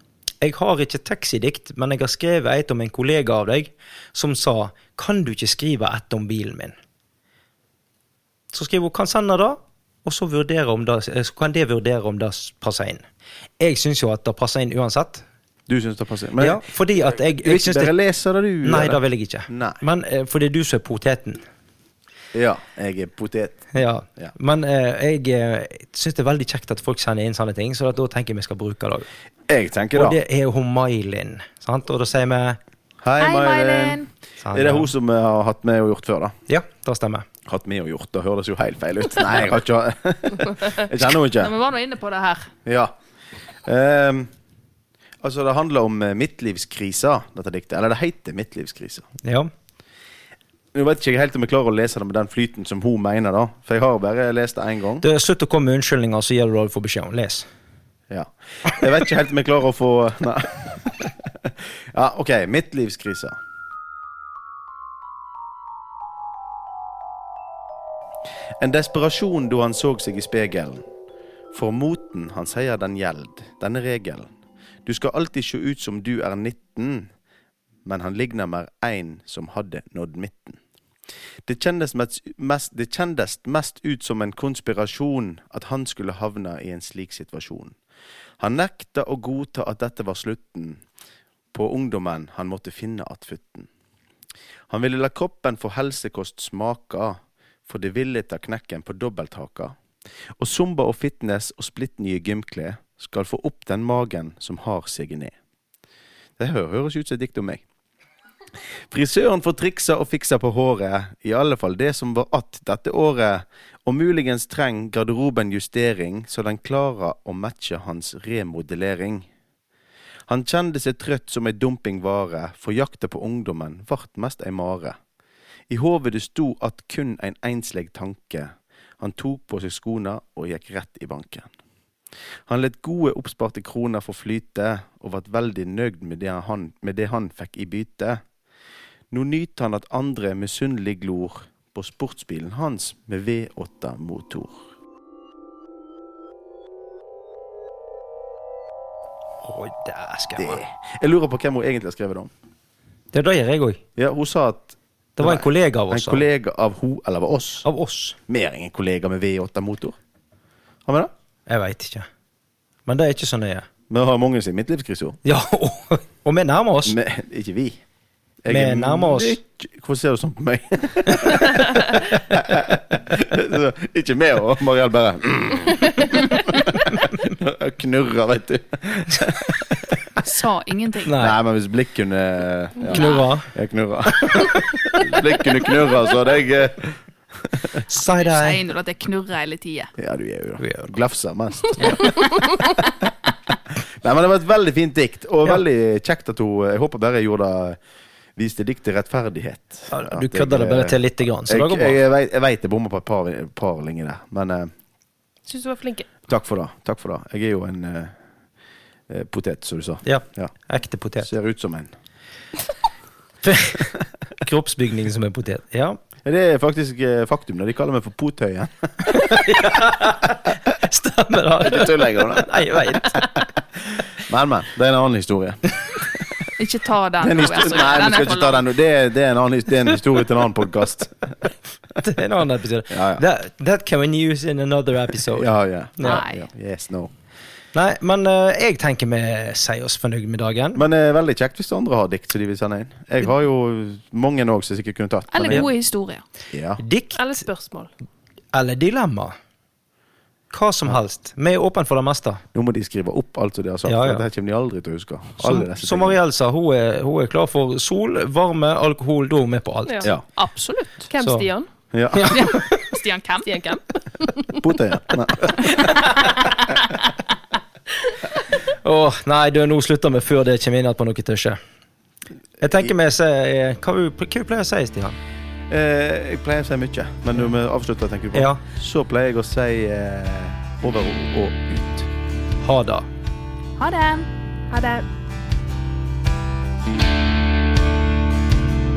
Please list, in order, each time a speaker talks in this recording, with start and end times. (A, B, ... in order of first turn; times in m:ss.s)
0:00.4-0:06.8 A
0:08.5-0:13.0 A
0:13.6-0:15.2 A
0:15.7-0:19.8 B
0:16.4-0:18.0 A
0:18.6-0:21.4 A
0:22.3-0:23.7 B
0:23.7-0:29.1 A
0:29.5-0:30.2 B
0:29.9-0:32.6 A
0:33.0-0:34.0 B
0:33.2-0:34.1 C
0:34.4-0:34.9 A
0:34.5-0:36.4 B
0:36.5-0:37.3 A
0:37.5-0:41.5 B
0:41.2-0:42.5 C
0:42.7-0:42.9 B
0:43.6-0:44.3 B
0:45.2-0:49.1 B
0:49.2-0:49.5 A
0:50.7-0:55.0 B
0:55.0-0:57.5 A
0:58.1-1:03.4 B
1:08.6-1:10.8 B
1:11.5-1:14.3 B
1:14.8-1:17.1 B
1:17.8-1:20.6 B
1:21.5-1:27.8 B
1:28.4-1:30.8 B
1:31.5-1:33.7 B
1:34.7-1:39.8 B
1:40.4-1:45.3 B
1:46.4-1:47.6 B
1:48.9-1:59.3 B
2:00.3-2:05.0 B
2:05.7-2:11.5 B
2:12.5-2:18.2 B
2:19.1-2:24.6 B
2:29.4-2:30.6 A
2:30.4-2:32.3 B
2:33.1-2:33.8 A
2:34.0-2:37.6 B
2:35.2-2:36.3 A
2:37.6-2:38.2 A
2:38.3-2:40.0 B
2:40.9-2:41.1 B
2:41.5-2:42.1 A
2:42.9-2:43.7 A
2:43.9-2:45.2 B
2:45.2-2:47.0 A
2:46.8-2:47.8 B
2:48.4-3:00.0 B
2:48.5-2:49.4 A
3:00.2-3:01.2 C
3:01.1-3:01.4 A
3:01.1-3:07.8 B
3:02.9-3:03.3 C
3:02.9-3:03.5 A
3:04.2-3:04.7 A
3:07.9-3:08.6 A
3:08.2-3:09.9 C
3:10.0-3:12.4 B
3:10.6-3:10.9 A
3:11.8-3:12.5 C
3:13.7-3:17.8 B
3:18.4-3:24.7 B
3:19.9-3:22.0 A
3:25.5-3:26.1 D
3:26.3-3:28.1 B
3:29.1-3:30.5 B
3:30.0-3:31.3 A
3:31.2-3:31.9 B
3:33.4-3:36.0 A
3:36.2-3:39.8 B
3:39.1-3:43.4 A
3:41.6-3:43.2 B
3:43.9-3:46.5 B
3:46.6-3:48.6 C
3:47.2-3:51.5 B
3:52.0-3:56.2 A
3:52.9-3:53.2 B
3:55.3-3:57.1 B
3:56.0-3:56.5 C
3:57.7-4:00.8 A
4:00.8-4:05.7 B
4:05.3-4:06.2 C
4:06.5-4:06.8 B
4:06.8-4:07.4 A
4:07.2-4:07.9 D
4:08.5-4:09.4 A
4:10.5-4:12.4 A
4:12.5-4:16.2 B
4:13.9-4:14.2 A
4:15.4-4:20.1 A
4:20.4-4:21.1 C
4:21.1-4:21.7 D
4:21.2-4:21.5 A
4:21.9-4:22.4 B
4:22.1-4:22.8 A
4:22.3-4:23.6 C
4:23.4-4:24.6 D
4:24.6-4:26.0 B
4:25.8-4:26.4 A
4:28.8-4:31.6 A
4:32.6-4:35.2 A
4:35.7-4:42.1 B
4:38.3-4:38.6 A
4:42.6-4:43.1 A
4:43.8-4:44.3 C
4:44.7-4:45.0 D